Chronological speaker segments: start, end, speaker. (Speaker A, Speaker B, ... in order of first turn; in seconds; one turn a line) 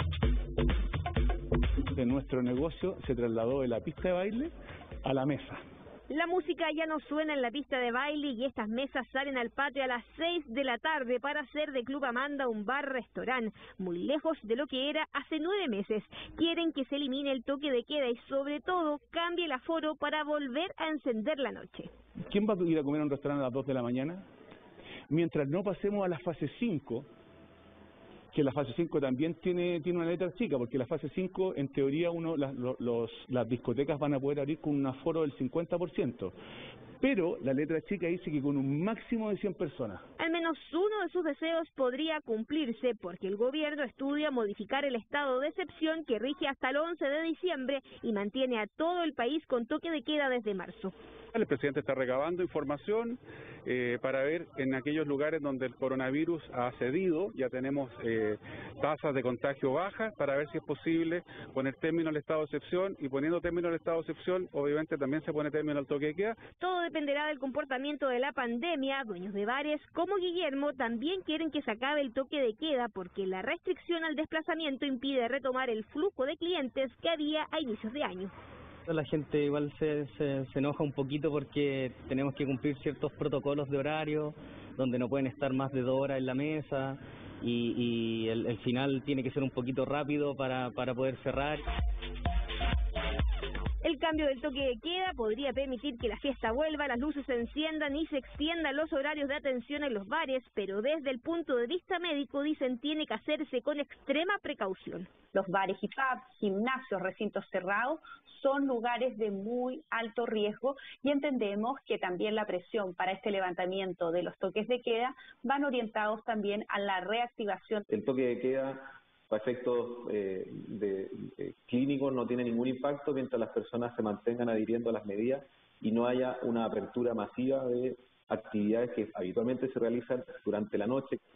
Speaker A: 1.9-4.5
Speaker A: 5.0-5.6
Speaker B: 6.1-21.9
Speaker A: 22.3-24.2
Speaker A: 25.1-27.1
Speaker A: 28.3-36.4
Speaker A: 37.0-40.0
Speaker B: 40.2-50.9
Speaker C: 51.3-66.4
Speaker B: 66.6-78.3
Speaker D: 78.9-91.6
Speaker B: 93.8-105.1
Speaker E: 105.3-117.8
Speaker F: 117.9-131.2